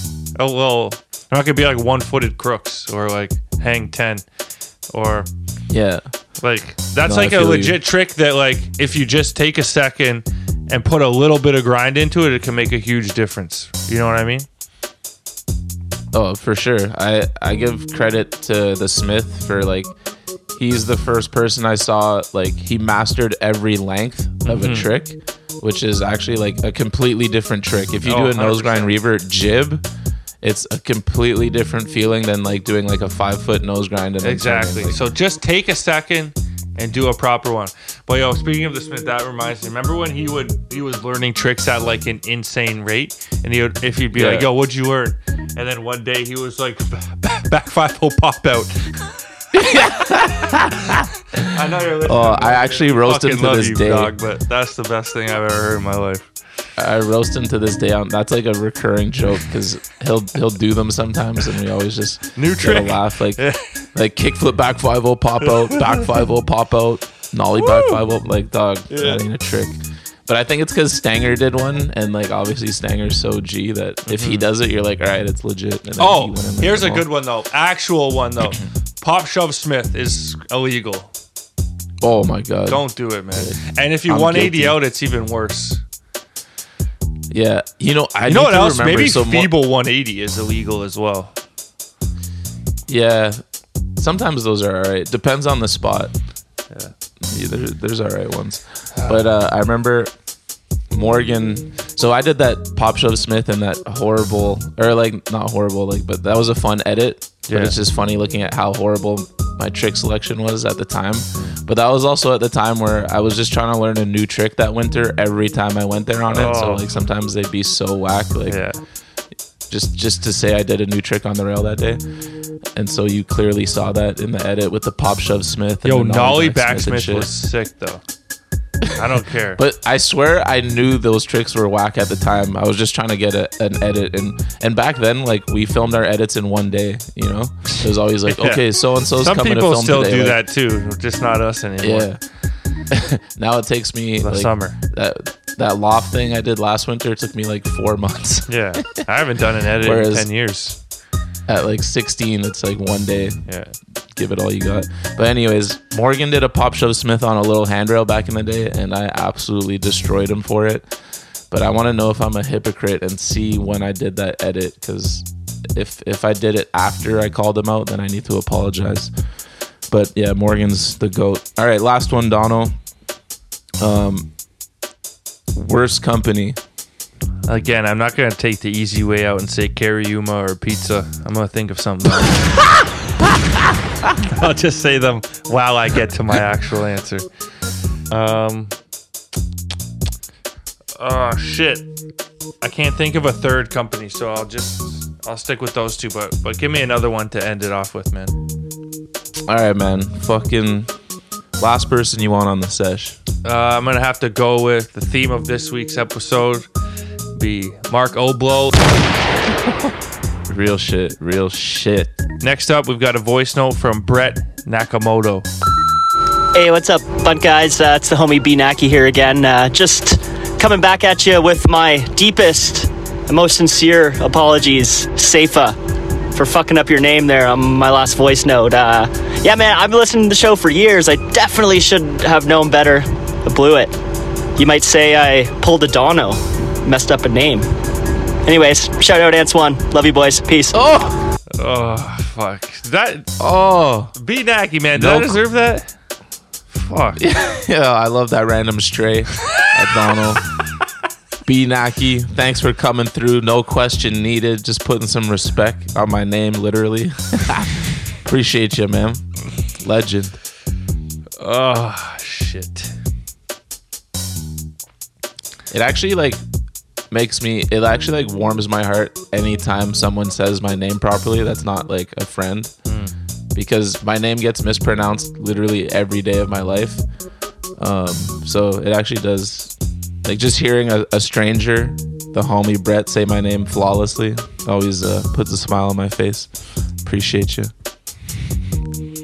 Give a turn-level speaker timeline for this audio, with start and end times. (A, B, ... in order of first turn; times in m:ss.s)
0:00.4-0:04.2 A
0:04.9-0:05.3 A
0:05.7-0:06.1 B
0:06.4-0:14.4 A
0:07.0-0:07.8 B
0:16.1-0:19.9 B
0:20.5-0:29.8 B
0:24.4-0:24.9 A
0:28.0-0:28.9 A
0:30.4-0:35.0 B
0:34.2-0:49.1 A
0:44.1-0:44.5 B
0:49.5-0:54.1 B
0:51.4-0:56.3 A
0:56.8-1:17.1 B
1:02.4-1:03.8 A
1:05.6-1:06.0 A
1:07.6-1:08.0 A
1:08.9-1:09.2 A
1:14.1-1:14.4 A
1:16.0-1:21.1 A
1:22.0-1:24.8 B
1:22.7-1:25.8 A
1:27.3-1:29.5 B
1:28.3-1:31.3 A
1:32.9-1:36.1 B
1:37.2-1:40.1 B
1:38.9-1:39.3 A
1:40.9-1:58.7 B
1:47.5-1:47.8 A
1:56.3-1:56.8 A
1:58.5-1:58.8 A
1:59.7-2:02.0 B
2:02.7-2:07.3 B
2:05.8-2:08.0 A
2:08.9-2:09.6 A
2:09.6-2:20.4 B
2:17.8-2:22.1 A
2:21.8-2:22.2 B
2:22.8-2:29.0 B
2:24.2-2:24.8 A
2:28.5-2:30.8 A
2:29.8-2:30.3 B
2:31.5-2:33.6 B
2:33.4-2:33.8 A
2:34.1-2:41.0 B
2:41.5-2:49.1 B
2:49.9-2:52.8 B
2:53.8-2:54.3 B
2:55.5-2:56.6 B
2:57.5-3:02.4 A
3:04.3-3:07.2 A
3:08.1-3:08.7 A
3:11.0-3:11.9 A
3:12.6-3:18.4 A
3:19.5-3:20.9 B
3:21.6-3:23.2 B
3:23.4-3:26.7 A
3:27.4-3:28.8 A
3:30.5-3:32.2 B
3:32.4-3:35.5 A
3:36.5-3:45.8 C
3:46.3-3:53.9 C
3:54.6-3:57.7 C
3:58.4-4:00.8 C
4:00.7-4:01.2 B
4:01.6-4:03.3 A
4:03.4-4:04.1 B
4:04.1-4:05.9 A
4:04.9-4:05.4 B
4:06.7-4:07.2 A
4:07.2-4:10.5 B
4:11.4-4:19.3 B
4:19.8-4:20.4 B
4:21.4-4:22.9 A
4:25.7-4:26.4 B
4:27.1-4:32.7 B
4:32.8-4:33.1 A
4:33.5-4:37.0 B
4:37.8-4:47.7 B